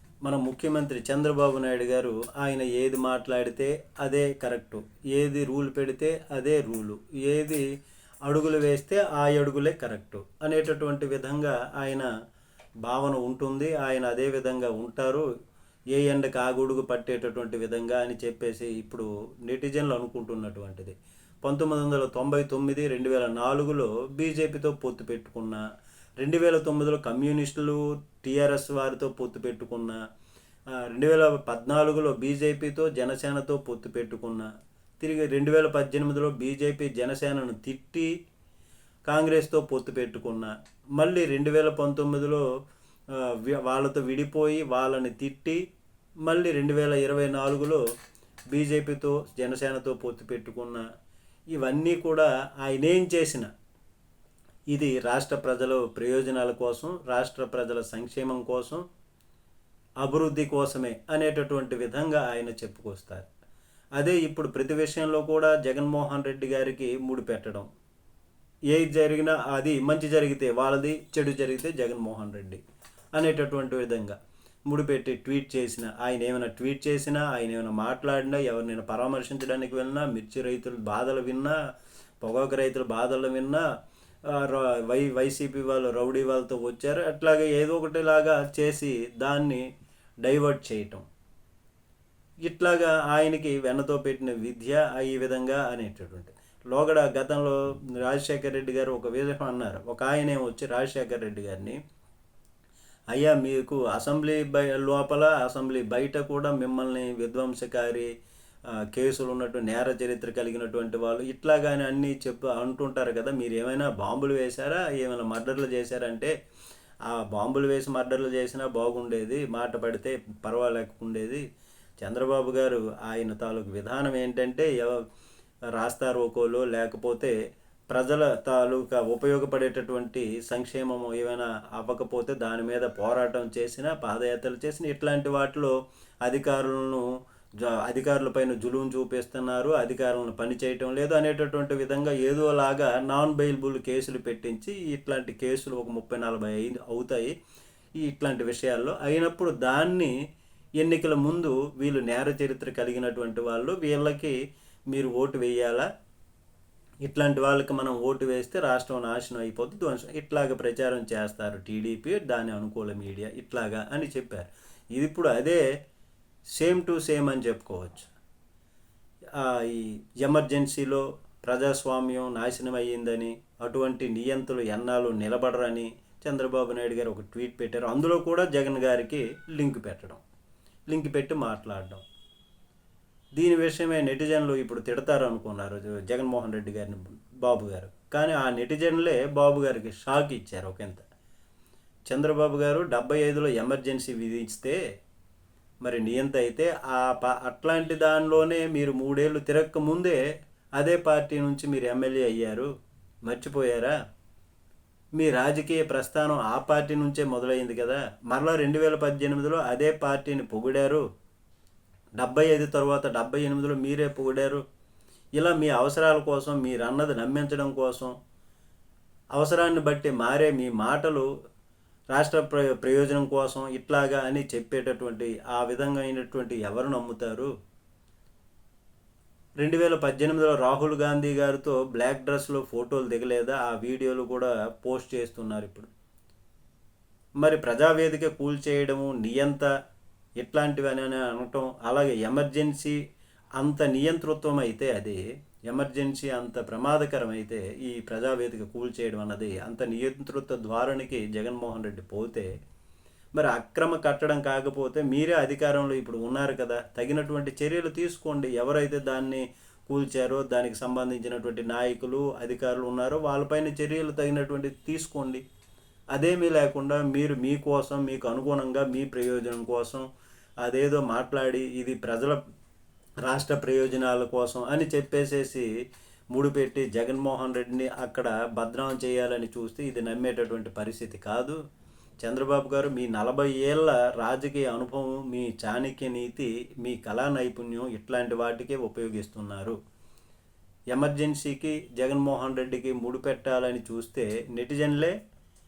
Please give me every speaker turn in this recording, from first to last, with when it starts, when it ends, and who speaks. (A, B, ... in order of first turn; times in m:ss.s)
0:00.2-0:07.6 A
0:08.3-0:12.1 A
0:12.8-0:15.3 A
0:15.9-0:25.6 A
0:26.2-0:30.0 A
0:30.9-0:38.1 A
0:39.1-0:42.4 A
0:43.2-0:45.6 A
0:46.3-0:47.8 A
0:48.5-0:50.8 A
0:51.5-0:53.5 A
0:54.7-0:58.8 A
1:00.0-1:03.3 A
1:04.0-1:07.7 A
1:08.7-1:12.6 A
1:13.2-1:21.6 A
1:22.2-1:23.6 A
1:24.3-1:29.6 A
1:30.2-1:31.0 A
1:32.5-1:41.8 A
1:43.1-1:48.1 A
1:48.9-1:56.3 A
1:57.1-2:01.4 A
2:02.0-2:05.0 A
2:05.8-2:07.3 A
2:07.9-2:15.7 A
2:16.3-2:17.0 A
2:17.6-2:27.3 A
2:28.0-2:30.1 A
2:30.8-2:34.4 A
2:34.9-2:35.9 A
2:37.0-2:45.6 A
2:46.6-2:48.1 A
2:49.4-3:00.2 A
3:00.9-3:02.0 A
3:03.4-3:11.0 A
3:12.1-3:14.8 A
3:15.8-3:20.2 A
3:20.8-3:22.7 A
3:23.3-3:24.0 A
3:25.2-3:31.0 A
3:32.2-3:34.6 A
3:35.4-3:38.2 A
3:39.4-3:41.3 A
3:42.1-3:47.5 A
3:49.6-3:55.9 A
3:57.4-3:59.7 A
4:00.4-4:03.0 A
4:03.6-4:12.5 A
4:13.4-4:25.4 A
4:26.1-4:30.1 A
4:30.6-4:32.4 A
4:33.3-4:35.7 A
4:36.3-4:41.6 A
4:42.2-4:49.8 A
4:50.9-4:55.1 A